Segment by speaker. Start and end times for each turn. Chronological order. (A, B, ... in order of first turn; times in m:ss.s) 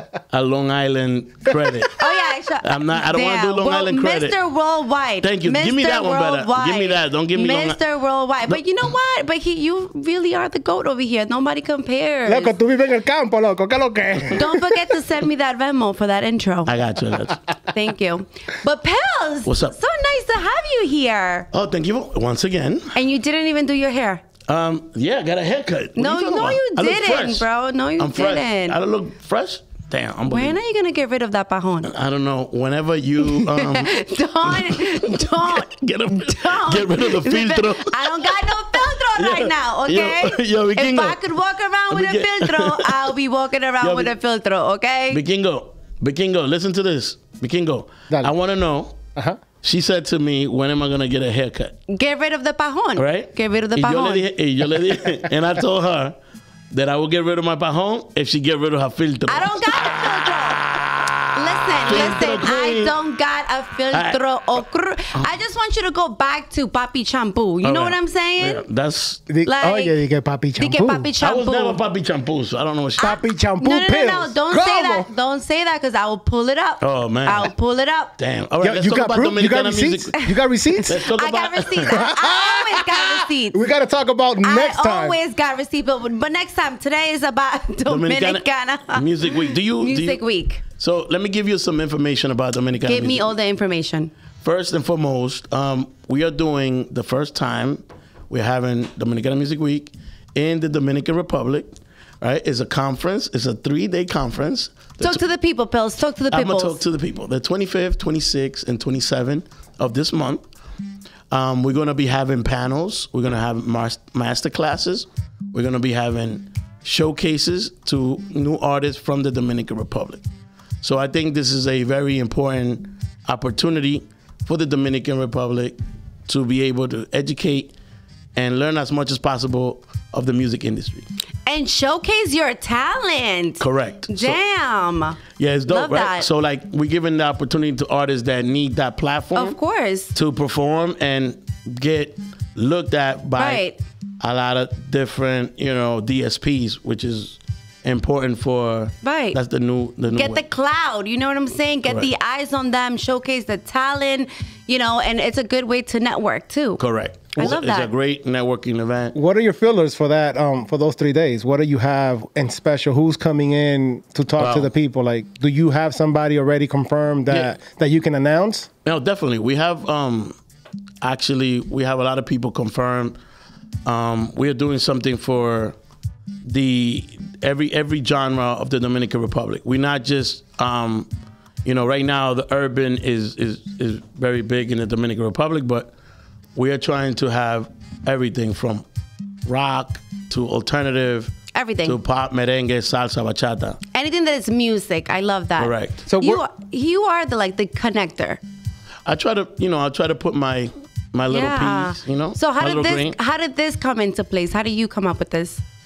0:00.3-0:02.1 A
0:01.5-0:01.8 B
0:02.0-0:12.6 C
0:02.6-0:04.4 A
0:05.2-0:07.8 A
0:12.3-0:15.0 B
0:14.4-0:16.8 C
0:16.7-0:17.4 A
0:17.7-0:21.5 C
0:19.4-0:19.8 A
0:21.5-0:23.0 A
0:22.9-0:24.2 C
0:24.5-0:27.5 A
0:26.0-0:28.8 C
0:28.0-0:30.6 A
0:30.3-0:31.9 C
0:31.8-0:41.2 A
0:33.2-0:45.2 C
0:41.9-0:43.1 A
0:43.8-0:44.2 A
0:45.1-0:49.0 A
0:49.6-0:51.8 A
0:51.9-0:54.3 C
0:53.0-0:56.2 A
0:56.7-1:00.0 A
0:59.3-1:00.7 C
1:01.3-1:08.6 C
1:01.9-1:02.9 A
1:03.9-1:04.2 A
1:07.6-1:09.2 A
1:09.3-1:11.1 B
1:09.4-1:10.0 C
1:10.6-1:11.8 C
1:11.2-1:13.2 A
1:13.0-1:15.1 B
1:13.0-1:18.2 C
1:16.8-1:17.5 A
1:18.2-1:20.2 A
1:18.6-1:21.0 B
1:20.9-1:22.0 A
1:20.9-1:23.6 C
1:21.9-1:25.2 B
1:24.4-1:30.6 C
1:27.9-1:30.2 A
1:30.8-1:33.3 A
1:32.8-1:34.1 C
1:34.4-1:45.2 A
1:45.0-1:46.8 C
1:46.3-1:50.4 A
1:51.3-2:00.2 A
2:00.8-2:05.8 A
2:06.3-2:07.7 A
2:08.4-2:11.1 A
2:11.5-2:16.3 C
2:13.6-2:14.4 A
2:15.4-2:19.6 A
2:19.4-2:20.1 C
2:20.1-2:23.6 A
2:23.4-2:23.8 C
2:24.2-2:30.4 A
2:29.0-2:29.4 C
2:30.1-2:36.8 C
2:36.8-2:39.2 A
2:37.4-2:37.9 C
2:39.1-2:48.7 B
2:44.4-2:44.7 A
2:47.3-2:47.5 A
2:48.8-2:50.4 A
2:51.0-2:53.2 A
2:53.9-2:55.8 A
2:56.4-3:01.1 A
3:01.6-3:05.9 A
3:06.6-3:08.8 A
3:09.5-3:11.3 A
3:11.5-3:12.0 C
3:11.8-3:13.8 A
3:13.9-3:18.4 C
3:15.6-3:16.1 A
3:16.1-3:16.4 B
3:19.1-3:23.2 A
3:21.3-3:25.6 C